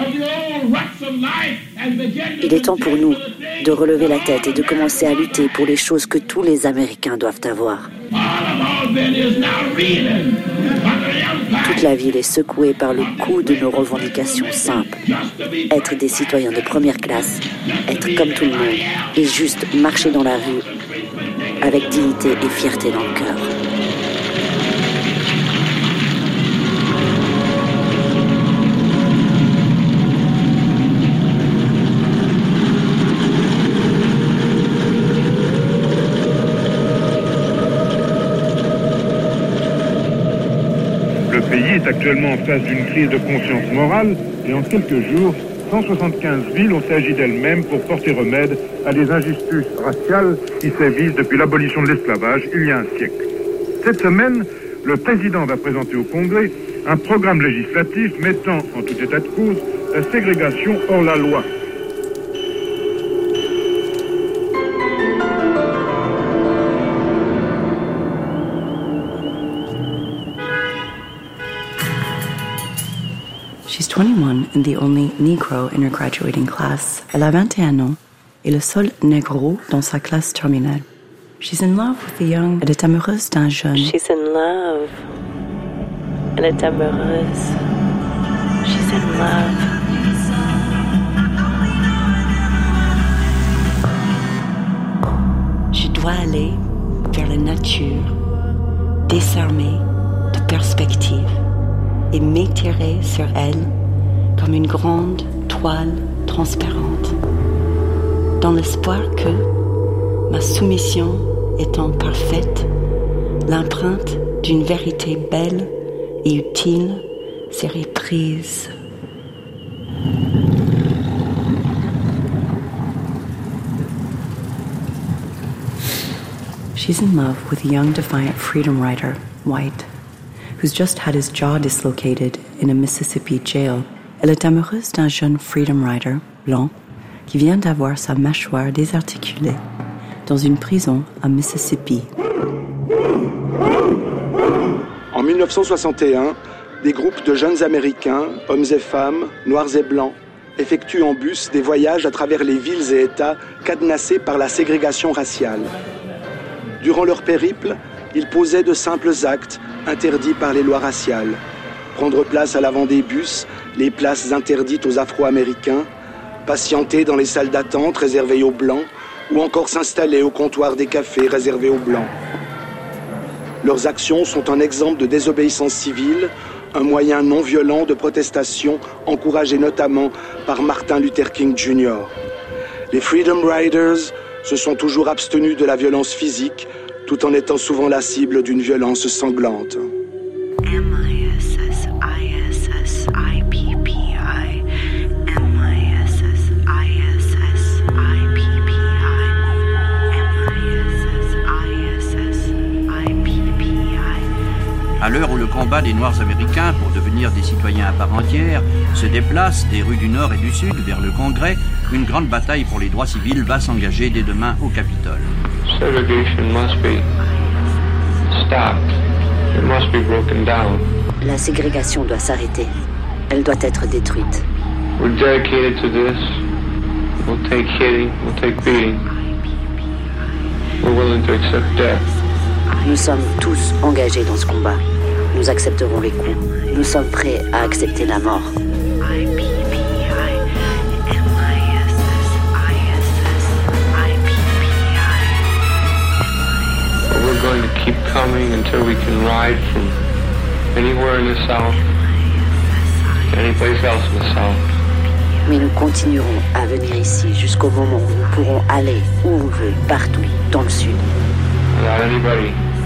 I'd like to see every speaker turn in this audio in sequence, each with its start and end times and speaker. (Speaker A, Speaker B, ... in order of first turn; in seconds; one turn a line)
Speaker A: 2.4-7.9
Speaker A: 11.6-15.0
Speaker A: 15.7-20.7
Speaker A: 21.6-23.5
Speaker B: 41.3-53.2
Speaker B: 53.8-61.5
Speaker C: 73.7-80.8
Speaker C: 81.4-84.0
Speaker D: 83.7-85.0
Speaker D: 86.3-87.6
Speaker D: 88.6-89.7
Speaker C: 95.7-98.1
Speaker C: 99.1-101.4
Speaker C: 102.1-103.7
Speaker C: 104.3-107.2
Speaker C: 108.4-109.5
Speaker C: 110.3-112.7
Speaker C: 113.5-115.7
Speaker C: 116.2-118.7
Speaker C: 126.7-129.9
Speaker C: 130.6-136.7
Speaker C: 137.3-139.6
Speaker C: 140.2-142.1
Speaker E: 145.1-155.7
Speaker E: 156.8-161.4
Speaker E: 161.9-165.9
Speaker E: 166.4-172.1
Speaker E: 173.6-182.1
Speaker E: 182.9-189.8
Speaker F: 205.0-215.3
Speaker G: 215.7-217.1
Speaker G: 218.3-218.9
Speaker G: 219.5-220.8
Speaker A: 221.2-222.7
Speaker A: 223.3-224.4
Speaker G: 225.0-226.4
Speaker G: 227.2-229.0
Speaker G: 230.8-232.1
Speaker A: 232.8-234.8
Speaker A: 235.3-238.5
Speaker G: 247.0-250.0
Speaker G: 250.7-251.9
Speaker G: 253.2-254.6
Speaker A: 255.4-261.1
Speaker G: 261.7-262.6